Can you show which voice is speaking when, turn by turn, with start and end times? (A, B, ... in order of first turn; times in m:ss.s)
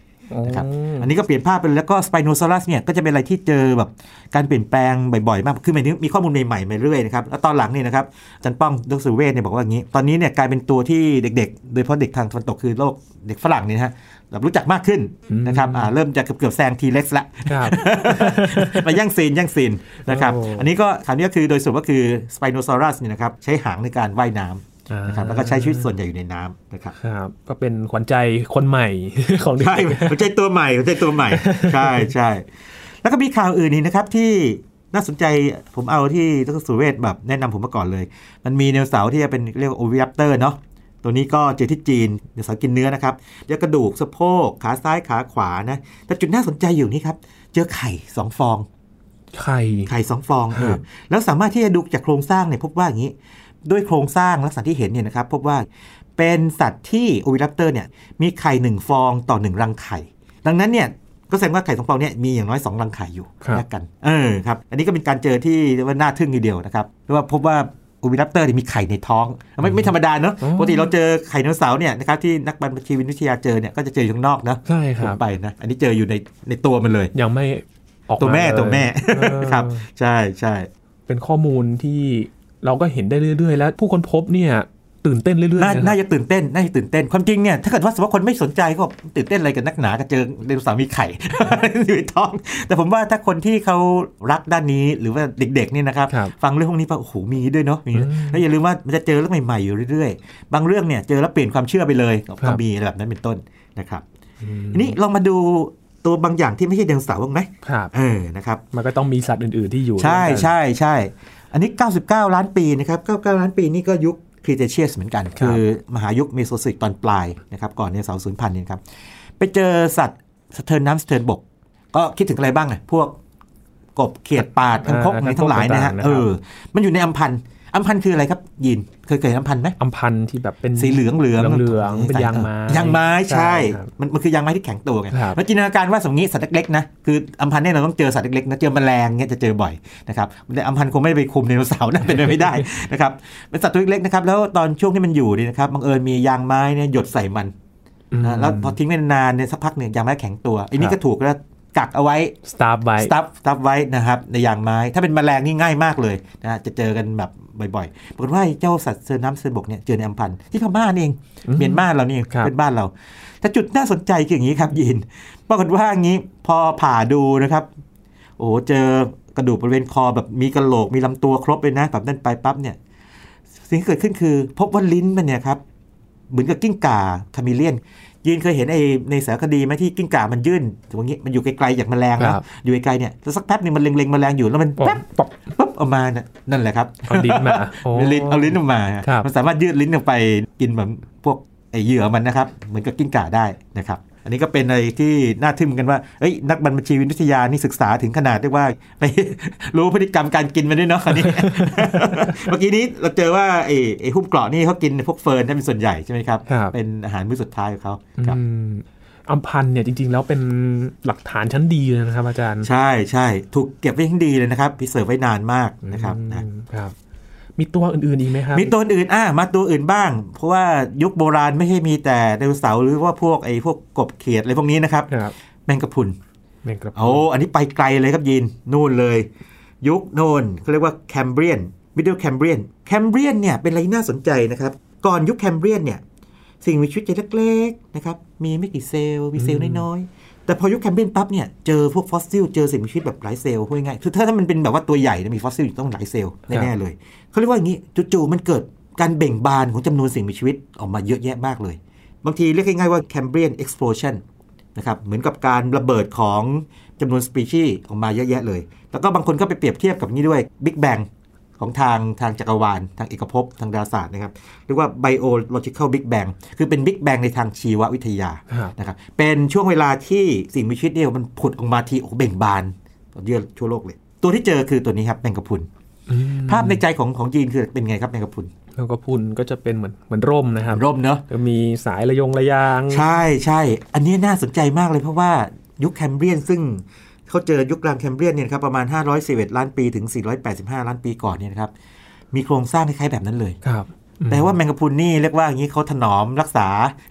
0:00.3-0:01.1 A
0:00.4-0:27.0 B
0:15.3-0:15.9 A
0:17.4-0:18.9 A
0:20.0-0:20.7 A
0:24.9-0:25.9 A
0:27.0-0:30.3 A
0:29.6-0:32.5 B
0:31.2-0:32.1 A
0:33.0-0:48.6 B
0:49.3-0:49.9 A
0:49.9-0:55.6 B
0:50.5-0:50.8 A
0:56.2-1:17.1 B
1:09.6-1:10.9 A
1:14.6-1:15.2 A
1:17.1-1:19.8 A
1:18.2-1:20.7 B
1:21.1-1:26.0 A
1:25.6-1:44.0 B
1:37.9-1:38.4 A
1:44.4-1:45.0 A
1:44.7-1:48.6 B
1:47.6-1:47.9 A
1:48.7-1:50.5 A
1:50.0-1:58.8 B
1:55.4-1:55.6 A
1:59.4-2:03.2 B
2:04.0-2:09.8 B
2:04.8-2:06.3 A
2:09.8-2:13.9 A
2:10.8-2:27.5 B
2:15.1-2:15.4 A
2:28.1-2:28.8 A
2:28.2-2:32.4 B
2:32.4-2:33.1 A
2:33.0-2:42.9 B
2:41.4-2:42.5 A
2:43.4-2:47.7 B
2:48.4-2:52.8 B
2:53.6-2:55.6 B
2:56.3-3:28.4 B
3:02.2-3:02.4 A
3:04.8-3:05.3 A
3:07.0-3:09.3 A
3:21.1-3:22.3 A
3:26.5-3:26.7 A
3:28.2-3:32.7 A
3:32.6-3:36.4 B
3:35.8-3:36.9 A
3:37.6-3:38.7 A
3:38.5-3:45.1 B
3:45.6-3:46.2 B
3:46.6-3:47.2 A
3:46.9-3:49.3 B
3:49.8-3:56.0 B
3:56.6-4:14.2 B
3:59.4-3:59.8 A
4:14.7-4:21.0 B
4:21.6-4:35.7 B
4:36.1-4:36.8 A
4:36.4-4:38.5 B
4:38.8-4:43.0 A
4:40.7-4:41.2 B
4:42.9-4:51.7 B
4:52.3-4:53.6 B
4:53.6-4:54.5 A
4:54.3-4:57.0 B